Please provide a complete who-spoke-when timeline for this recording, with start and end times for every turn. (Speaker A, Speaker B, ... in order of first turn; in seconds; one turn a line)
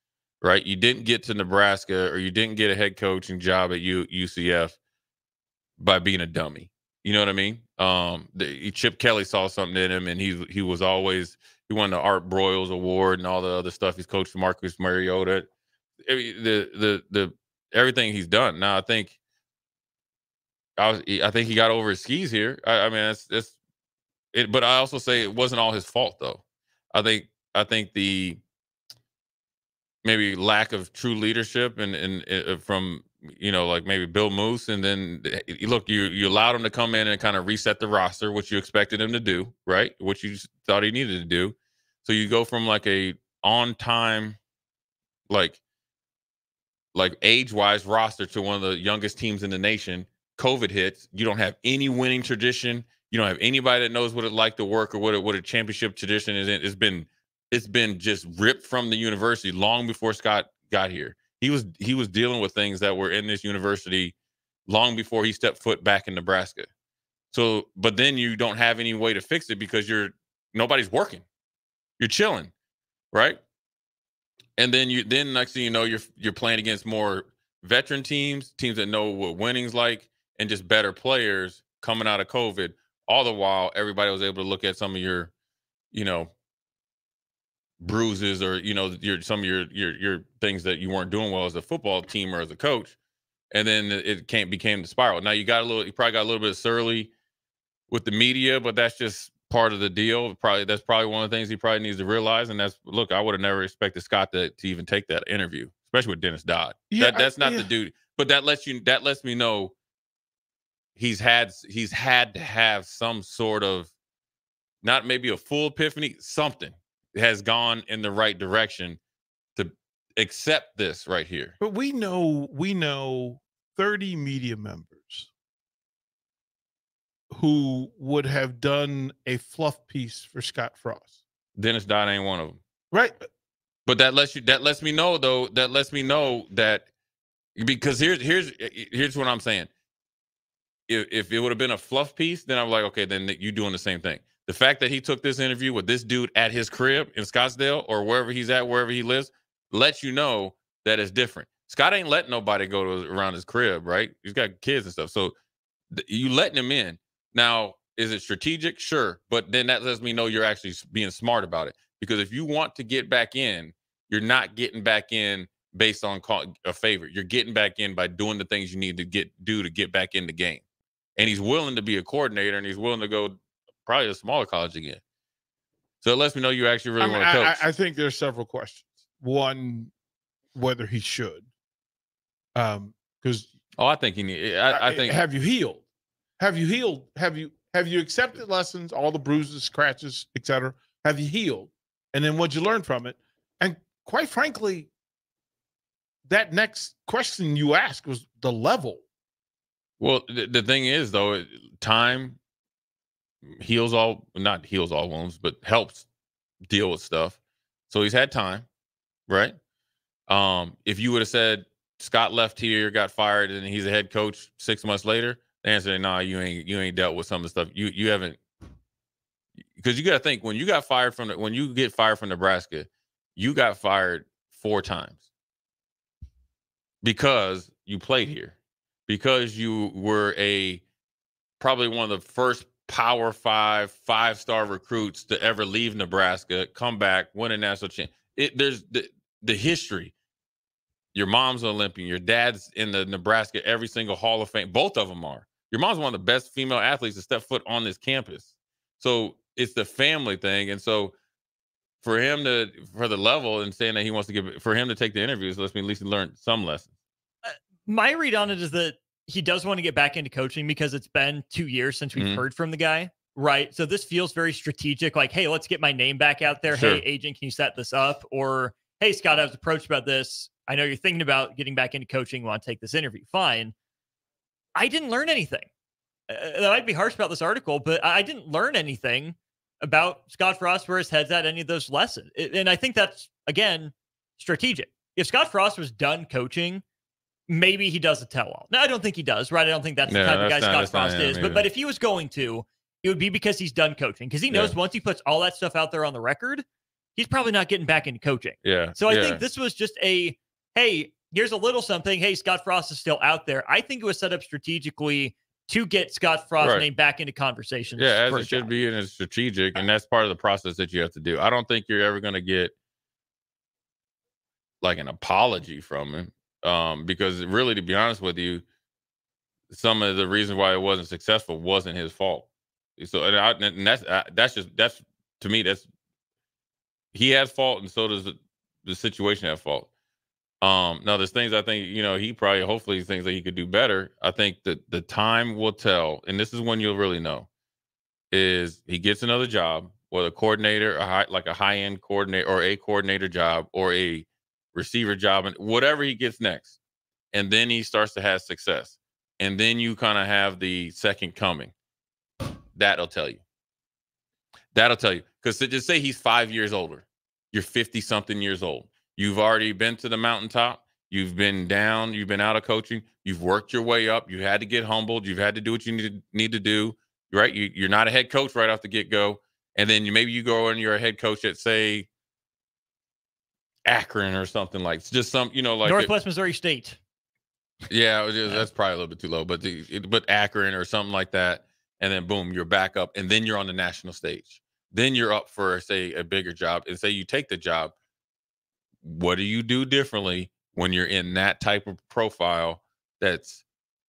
Speaker A: 0.4-4.8
Speaker A: 5.8-15.5
Speaker A: 16.0-19.2
Speaker A: 20.8-23.6
Speaker A: 24.3-26.4
Speaker A: 26.9-28.4
Speaker A: 30.0-44.4
Speaker A: 45.3-45.6
Speaker A: 46.9-64.1
Speaker A: 64.7-66.7
Speaker A: 67.3-71.2
Speaker A: 72.0-72.5
Speaker A: 73.1-73.4
Speaker A: 74.6-85.3
Speaker A: 85.9-86.3
Speaker A: 87.8-93.0
Speaker A: 93.5-97.1
Speaker A: 97.9-109.7
Speaker B: 106.9-107.7
Speaker A: 111.0-113.9
Speaker A: 114.8-119.0
Speaker A: 119.6-121.5
Speaker B: 121.6-125.3
Speaker B: 127.3-131.2
Speaker A: 131.6-132.6
Speaker B: 132.9-133.2
Speaker A: 133.9-136.9
Speaker A: 137.6-139.7
Speaker A: 140.9-155.3
Speaker A: 155.9-170.6
Speaker A: 171.2-175.0
Speaker A: 176.0-177.7
Speaker B: 177.0-179.9
Speaker B: 180.6-181.5
Speaker B: 182.6-183.5
Speaker A: 183.8-185.2
Speaker B: 184.7-185.8
Speaker B: 186.4-194.9
Speaker B: 196.3-199.0
Speaker A: 200.0-202.4
Speaker A: 203.5-206.1
Speaker A: 206.7-207.4
Speaker A: 207.9-208.7
Speaker A: 209.3-209.6
Speaker A: 210.3-218.4
Speaker A: 219.8-225.3
Speaker A: 227.0-228.6
Speaker A: 229.1-230.8
Speaker A: 231.6-240.1
Speaker A: 241.1-251.1
Speaker A: 252.0-256.9
Speaker C: 257.4-273.7
Speaker A: 262.2-262.4
Speaker A: 266.7-267.0
Speaker C: 274.8-275.7
Speaker C: 276.3-286.8
Speaker C: 287.5-296.6
Speaker A: 290.1-291.6
Speaker C: 297.2-308.7
Speaker A: 298.6-299.4
Speaker A: 306.6-306.9
Speaker A: 308.0-312.7
Speaker A: 314.8-318.6
Speaker A: 319.7-325.9
Speaker A: 327.1-329.9
Speaker A: 330.6-337.5
Speaker A: 338.3-346.8
Speaker A: 347.3-351.7
Speaker A: 352.8-353.4
Speaker A: 354.7-372.1
Speaker A: 373.9-376.1
Speaker C: 375.9-377.0
Speaker A: 377.9-387.9
Speaker A: 389.0-393.6